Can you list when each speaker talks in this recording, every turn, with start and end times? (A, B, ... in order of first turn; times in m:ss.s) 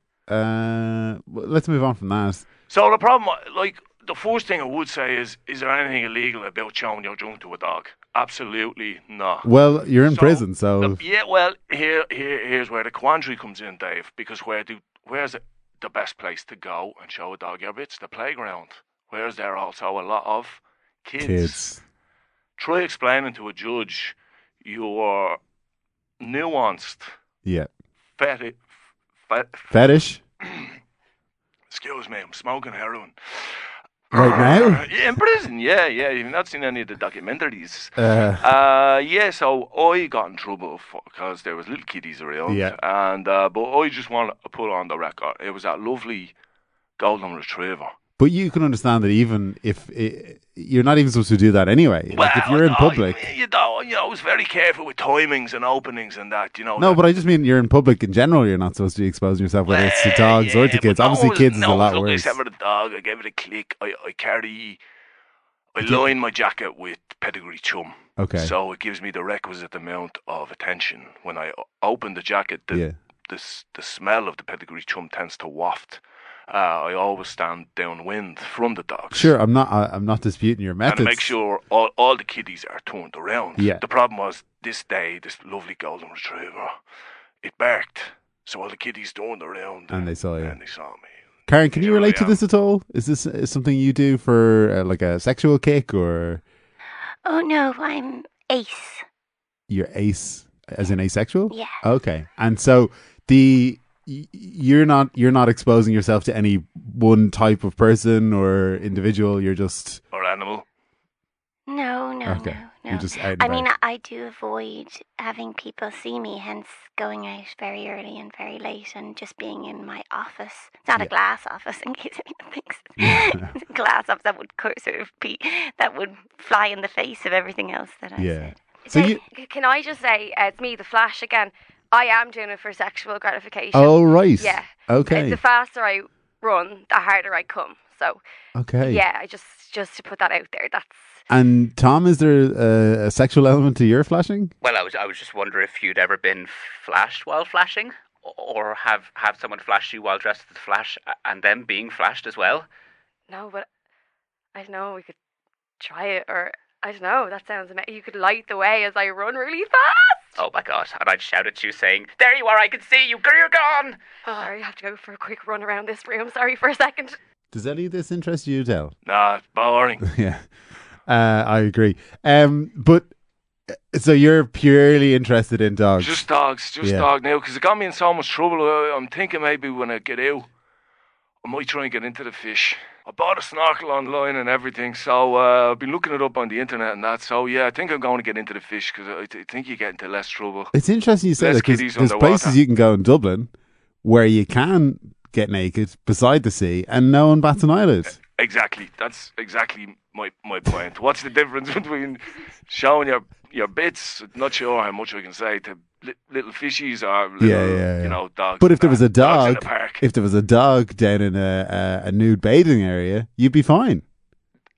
0:00.3-0:02.5 A
0:02.7-0:09.5 B
0:09.4-0:11.0 A
0:10.1-0:21.6 B
0:21.2-0:21.8 A
0:22.6-0:25.4 B
0:26.2-0:27.1 B
0:27.4-0:27.7 A
0:28.2-0:28.6 B
0:29.3-0:29.7 B
0:29.7-0:30.2 A
0:31.7-0:46.4 B
0:34.1-0:34.9 A
0:38.0-0:38.5 A
0:42.5-0:42.8 A
0:47.0-0:47.9 B
0:48.2-0:53.2 A
0:52.1-0:57.0 B
0:56.8-1:02.4 A
0:59.7-1:04.8 B
1:05.7-1:19.3 B
1:08.2-1:08.5 A
1:19.1-1:21.3 A
1:20.8-1:26.8 B
1:23.6-1:23.8 A
1:27.4-1:31.1 B
1:29.9-1:30.6 A
1:31.5-1:36.4 A
1:31.8-1:32.4 B
1:37.2-1:39.0 C
1:39.7-1:50.0 A
1:41.5-1:41.8 C
1:50.1-1:50.7 B
1:51.7-2:08.5 C
1:52.2-1:53.7 A
2:03.0-2:03.5 A
2:08.2-2:09.2 A
2:08.8-2:18.2 D
2:13.7-2:15.4 A
2:18.6-2:19.0 A
2:18.8-2:21.2 D
2:21.3-2:24.5 A
2:24.6-2:32.7 E
2:33.3-2:33.7 D
2:34.6-2:35.2 D
2:35.8-2:40.4 D
2:40.4-2:44.5 E
2:44.3-2:47.2 D
2:47.5-2:49.0 A
2:49.0-2:50.0 B
2:50.0-2:50.4 A
2:51.1-2:53.1 A
2:53.7-2:56.2 A
2:56.0-3:00.5 B
2:56.8-2:57.1 A
3:01.4-3:10.7 B
3:10.7-3:13.5 A
3:11.4-3:12.6 B
3:14.0-3:18.2 A
3:18.2-3:30.0 B
3:27.4-3:34.0 A